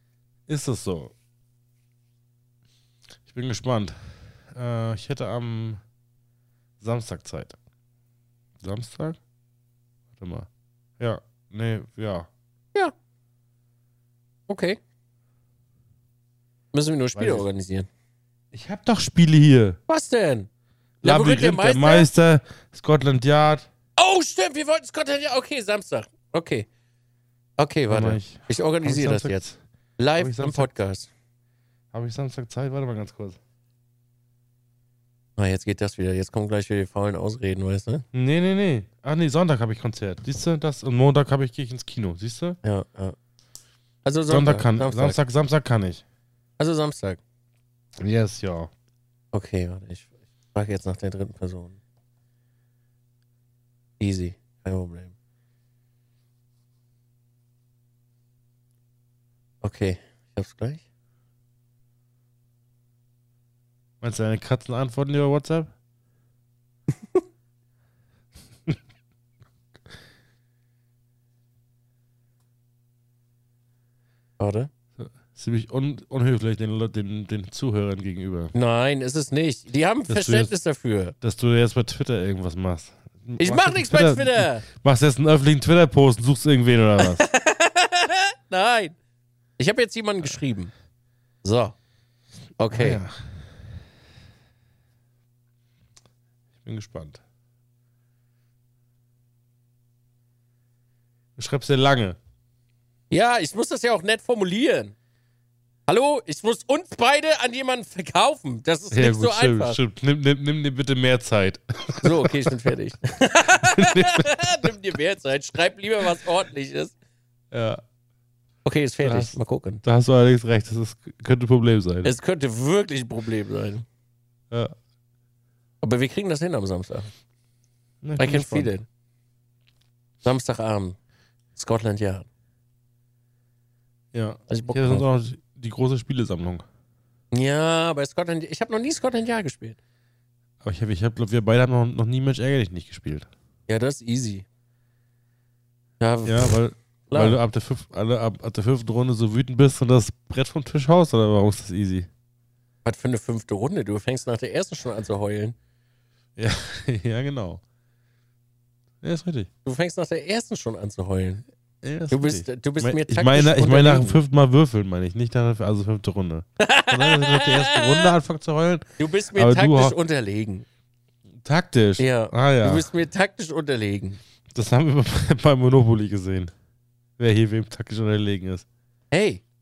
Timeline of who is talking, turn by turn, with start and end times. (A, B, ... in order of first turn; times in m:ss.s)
0:00.5-0:01.1 A
0:03.3-0:05.8 A
0:06.8-0:07.6 A
0:08.6-0:09.2 A
0:10.2-0:10.5 A
0:11.0-0:12.3 A
0:14.5-0:14.8 B
0:16.7-0:17.9 B
0:17.1-0:17.4 A
0:18.5-0:19.8 A
0:19.9-0:20.5 B
0:21.0-0:23.7 A
0:21.0-0:22.1 B
0:24.0-0:26.7 B
0:27.6-0:29.4 B
0:27.9-0:29.6 A
0:30.0-0:31.1 B
0:30.2-0:30.7 A
0:31.9-0:33.4 A
0:35.4-0:38.0 B
0:38.1-0:42.6 A
0:42.6-0:43.2 B
0:44.0-0:45.2 B
0:44.3-0:46.0 A
0:46.6-0:47.2 B
0:48.0-0:48.7 A
0:49.3-0:51.8 B
0:54.0-0:55.1 B
0:59.6-1:00.8 B
1:04.0-1:05.7 A
1:14.4-1:14.7 B
1:15.0-1:18.5 A
1:18.5-1:21.1 B
1:20.1-1:20.5 A
1:21.2-1:27.2 A
1:23.4-1:24.6 B
1:27.0-1:28.9 B
1:29.6-1:30.7 B
1:31.4-1:31.7 B
1:32.6-1:33.0 B
1:32.7-1:33.4 A
1:36.6-1:37.2 A
1:41.4-1:42.2 A
1:43.1-1:44.9 B
1:45.9-1:49.8 B
1:48.9-1:52.6 A
1:52.0-1:56.9 B
1:53.5-1:54.7 A
1:57.5-1:57.8 A
1:58.6-1:59.8 B
1:59.0-2:02.1 A
2:02.0-2:03.8 B
2:05.8-2:07.1 B
2:08.0-2:08.7 A
2:08.2-2:08.8 B
2:10.2-2:11.0 B
2:11.5-2:12.3 B
2:14.1-2:16.6 A
2:14.5-2:15.0 B
2:17.3-2:19.8 B
2:20.6-2:23.3 A
2:23.7-2:24.4 B
2:26.0-2:26.6 B
2:26.2-2:32.1 A
2:27.1-2:27.4 B
2:32.8-2:35.6 B
2:36.4-2:37.6 A
2:39.0-2:39.5 A
2:39.6-2:41.4 B
2:41.8-2:50.0 A
2:42.1-2:44.2 B
2:46.6-2:48.1 B
2:49.0-2:50.6 B
2:51.4-2:52.9 A
2:52.0-2:54.2 B
2:54.5-2:56.5 A
2:57.2-2:58.6 A
2:59.1-2:59.4 B